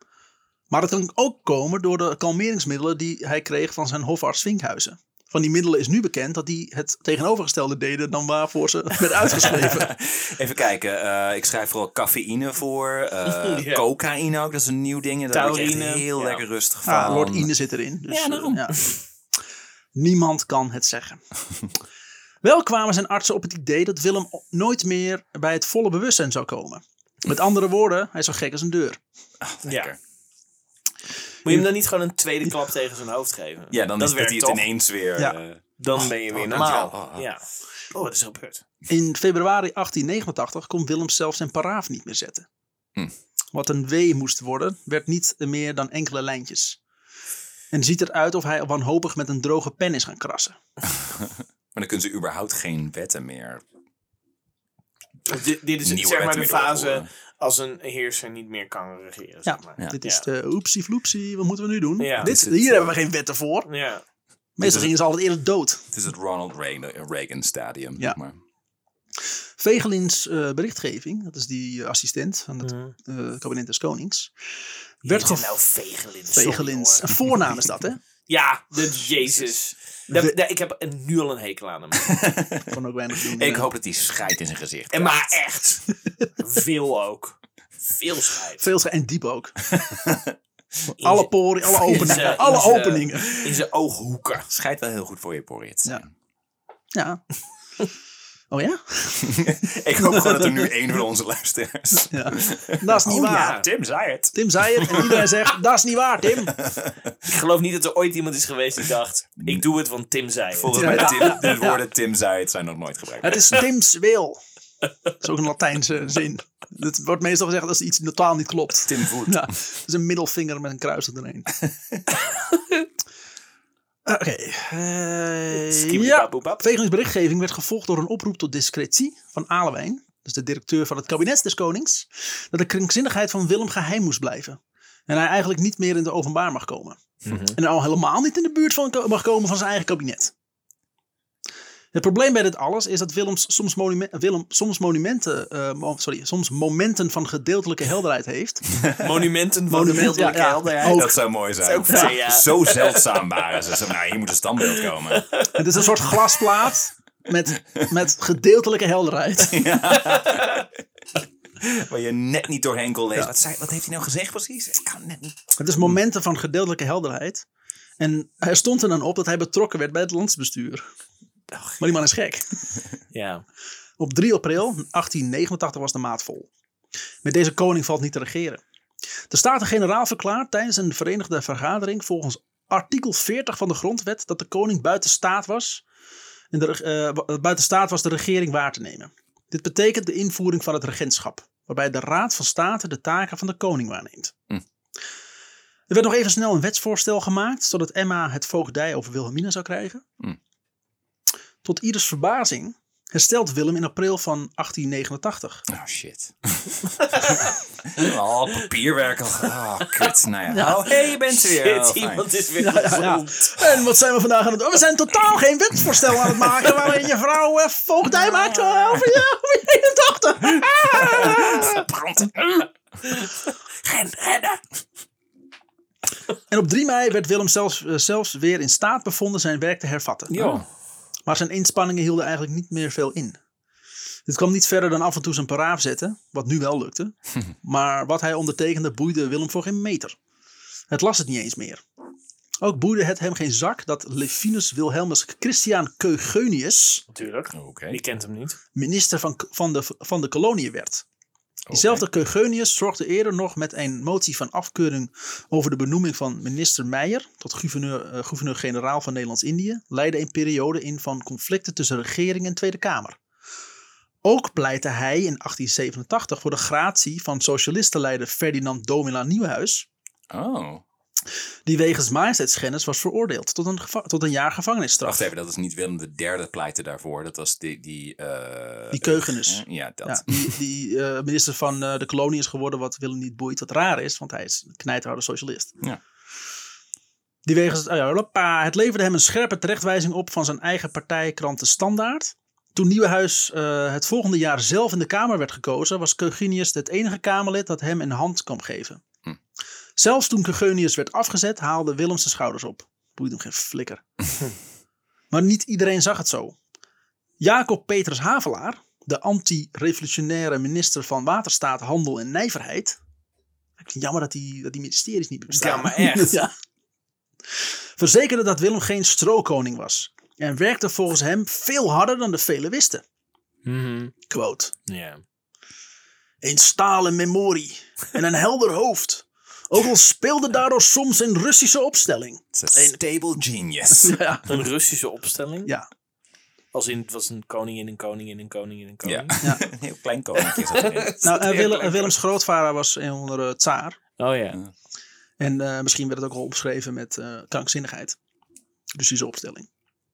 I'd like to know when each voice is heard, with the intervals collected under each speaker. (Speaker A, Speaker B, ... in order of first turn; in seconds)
Speaker A: 0.7-9.9, 16.8-18.8, 19.9-21.2, 22.4-29.0, 38.9-42.5, 43.5-46.8, 47.7-50.6, 59.5-63.7, 64.6-65.8, 69.6-74.3, 75.0-75.6, 76.3-78.0, 80.1-80.3, 82.7-83.7, 88.6-89.6, 90.9-93.4, 96.9-97.2, 98.5-100.7, 101.9-103.5, 104.3-106.5, 110.7-111.8, 113.2-114.4, 115.2-121.6, 124.0-140.3, 141.9-148.7, 149.7-151.2, 155.5-159.7, 165.6-167.4, 168.0-170.8, 171.8-172.4, 174.0-176.5, 177.2-178.6, 179.3-185.8, 186.5-194.3, 195.9-200.0, 201.6-205.7, 210.5-210.8, 212.6-221.8, 226.5-230.6, 231.3-233.4, 234.3-240.2, 240.9-241.8, 242.6-247.0, 248.8-251.0, 251.7-263.2, 264.2-269.9, 271.6-275.3, 278.9-285.7, 287.4-299.0, 299.9-304.0, 305.3-306.6, 307.4-313.0, 313.8-316.5, 318.0-323.0, 324.3-324.7, 326.4-333.0, 333.9-334.6, 341.2-344.0, 345.4-348.2, 348.9-349.7
Speaker B: 9.4-17.5, 18.1-18.7, 29.4-30.0, 33.7-35.4, 36.4-37.3, 51.0-53.6, 55.8-57.1, 62.2-62.9, 64.6-64.9, 65.9-68.4, 82.0-82.7, 83.3-85.4, 89.8-90.4, 94.5-96.1, 99.2-105.1, 106.5-107.1, 109.4-109.6, 110.5-113.5, 118.8-119.5, 121.6-122.0, 148.8-149.1, 150.8-155.3, 159.4-160.7, 161.6-165.8, 205.7-212.3, 218.2-219.1, 220.5-222.6, 230.3-230.7, 247.5-248.0, 251.7-252.0, 270.3-270.8, 275.1-280.5, 332.5-334.2, 339.0-341.2
Speaker C: 13.3-13.8, 15.3-16.4, 29.6-29.9, 31.4-34.7, 35.8-38.6, 55.3-60.2, 62.0-62.3, 63.7-64.0, 72.6-72.9, 75.0-77.1, 78.3-82.1, 84.9-88.7, 91.0-94.5, 103.2-103.7, 107.2-111.5, 125.5-126.7, 137.2-137.6, 148.9-153.2, 154.8-155.5, 160.2-160.6, 173.1-173.4, 207.0-207.4, 210.8-213.5, 223.0-224.6, 247.1-248.6, 315.5-316.4, 323.6-324.1, 324.9-325.2, 334.5-335.7, 336.7-339.4, 340.4-342.1, 344.2-344.6